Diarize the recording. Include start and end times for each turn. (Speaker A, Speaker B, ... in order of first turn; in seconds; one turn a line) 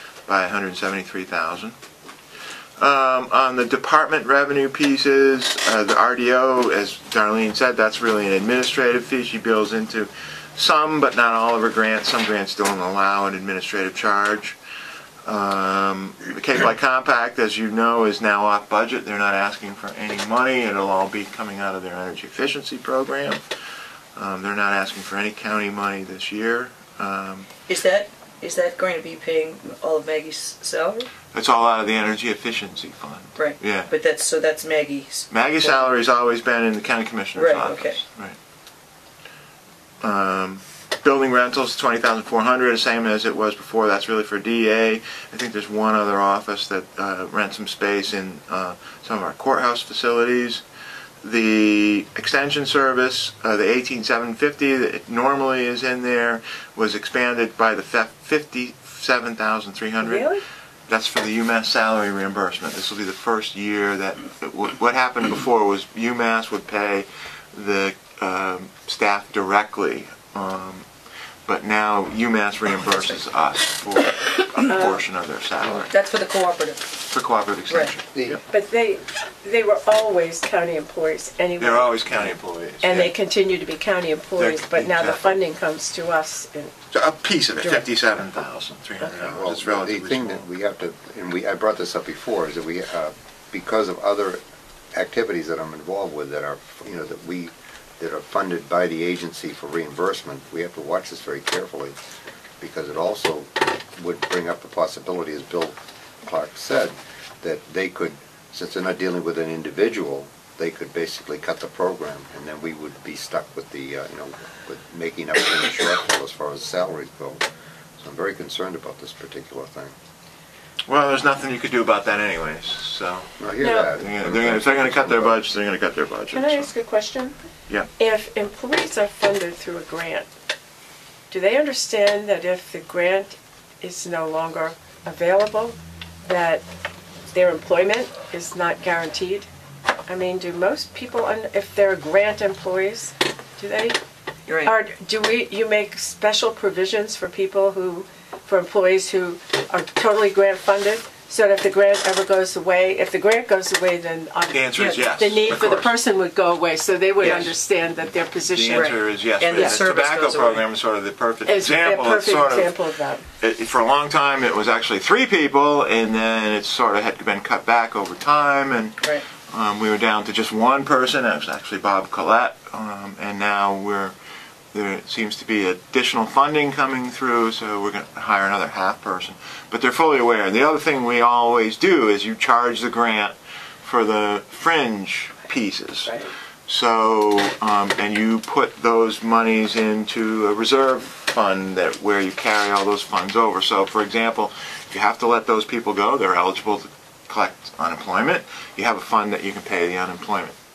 Speaker A: 0.3-1.7
Speaker A: 2.8-14.6
Speaker A: 15.2-23.4
Speaker A: 24.1-27.5
Speaker B: 27.7-31.1
Speaker A: 31.3-33.9
Speaker B: 33.3-35.9
Speaker A: 35.3-38.4
Speaker B: 37.3-38.0
Speaker A: 40.0-50.6
Speaker A: 51.2-60.3
Speaker C: 60.0-60.4
Speaker A: 60.9-70.9
Speaker A: 71.5-75.9
Speaker C: 74.7-75.0
Speaker B: 75.9-76.9
Speaker A: 77.1-78.4
Speaker D: 78.1-78.4
Speaker C: 78.5-86.7
Speaker A: 81.6-83.1
Speaker A: 84.4-85.4
Speaker A: 86.9-90.5
Speaker D: 89.2-94.4
Speaker D: 94.9-102.0
Speaker D: 102.6-117.4
Speaker D: 118.0-119.9
Speaker A: 120.9-123.3
Speaker D: 123.4-125.4
Speaker C: 123.6-123.9
Speaker A: 123.9-126.7
Speaker C: 126.3-127.3
Speaker C: 128.0-130.3
Speaker C: 131.3-136.6
Speaker C: 137.3-139.5
Speaker C: 140.1-144.0
Speaker B: 144.5-144.7
Speaker C: 144.6-158.9
Speaker A: 154.5-155.9
Speaker B: 157.2-157.5
Speaker A: 157.2-157.5
Speaker A: 158.5-162.8
Speaker B: 158.7-160.6
Speaker C: 159.5-159.8
Speaker C: 161.4-163.2
Speaker A: 163.4-174.1
Speaker A: 174.7-186.1
Speaker A: 186.7-200.5